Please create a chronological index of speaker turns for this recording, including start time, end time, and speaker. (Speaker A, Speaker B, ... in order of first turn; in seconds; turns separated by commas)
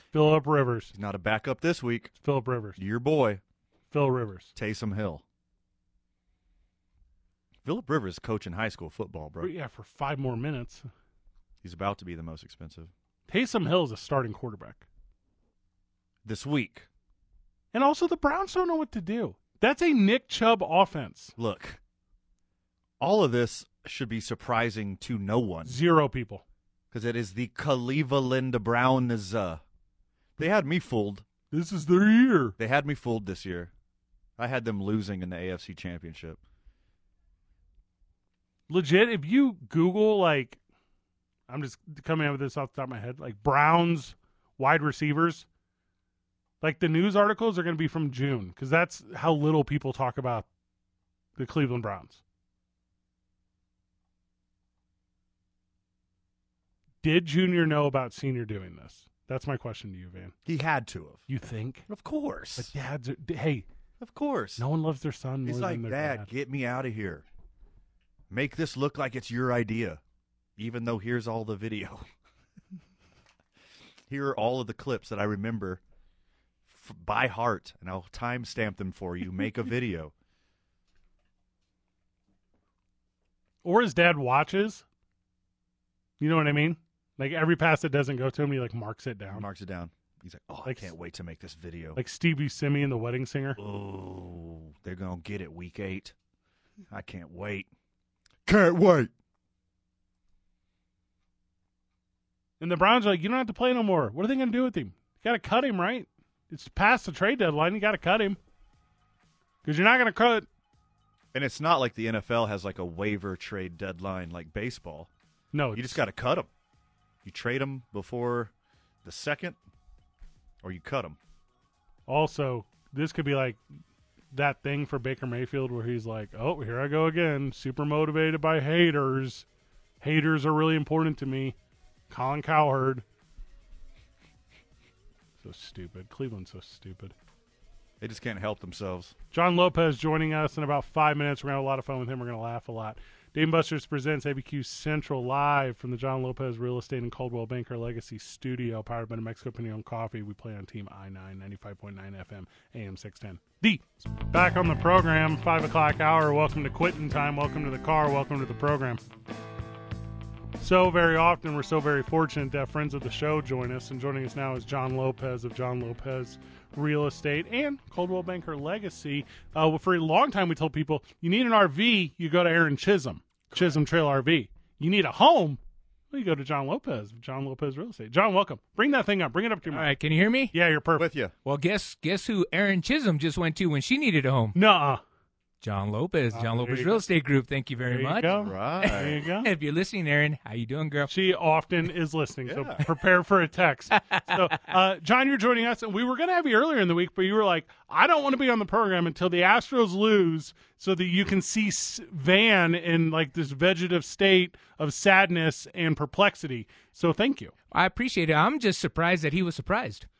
Speaker A: 0.1-0.9, Speaker B: 0.9-2.1, Speaker A: 2.2-2.8, Speaker B: 2.8-3.4, Speaker A: 3.9-4.5, Speaker B: 4.6-5.2, Speaker B: 7.7-9.5, Speaker A: 9.4-10.9, Speaker B: 11.6-12.9, Speaker A: 13.3-14.8, Speaker B: 16.2-16.9, Speaker A: 17.7-21.4, Speaker B: 21.4-21.8, Speaker B: 23.0-25.8, Speaker A: 25.6-26.4, Speaker B: 26.9-29.6, Speaker B: 30.4-31.2, Speaker A: 31.5-32.6, Speaker B: 32.6-33.7, Speaker B: 34.4-36.4, Speaker A: 38.7-40.6, Speaker A: 41.5-45.5, Speaker A: 46.6-50.5, Speaker A: 51.4-52.2, Speaker A: 57.0-60.3, Speaker B: 60.5-61.2, Speaker A: 61.3-61.9, Speaker B: 61.9-62.7, Speaker A: 62.6-63.7, Speaker B: 64.0-64.6, Speaker A: 64.6-66.3, Speaker B: 65.5-67.2, Speaker B: 68.3-70.0, Speaker B: 70.6-72.0, Speaker B: 74.1-75.8, Speaker B: 76.7-80.1, Speaker A: 83.6-84.8, Speaker A: 86.2-89.5, Speaker B: 89.3-92.0, Speaker A: 90.7-90.9, Speaker A: 92.0-93.6, Speaker B: 93.6-96.2, Speaker B: 96.9-97.7, Speaker B: 98.5-99.1, Speaker A: 102.6-108.4, Speaker A: 109.6-110.5, Speaker B: 111.3-115.1, Speaker A: 115.5-116.0, Speaker B: 115.7-116.5, Speaker B: 117.2-118.5, Speaker B: 119.0-119.6, Speaker B: 120.6-121.2, Speaker A: 122.1-123.6, Speaker A: 124.3-129.5, Speaker A: 130.0-131.6, Speaker A: 132.1-133.1, Speaker A: 135.4-137.1, Speaker B: 138.0-139.2, Speaker A: 139.3-159.0, Speaker A: 160.6-175.6, Speaker A: 176.1-179.9, Speaker C: 179.7-180.5, Speaker A: 180.5-181.1, Speaker B: 181.0-181.3, Speaker C: 181.4-184.6, Speaker A: 184.6-185.0, Speaker C: 185.6-191.1, Speaker A: 186.3-187.1, Speaker A: 187.9-189.5, Speaker B: 188.3-189.2, Speaker A: 191.1-207.5, Speaker B: 192.5-192.8, Speaker C: 194.1-194.4, Speaker C: 207.7-210.1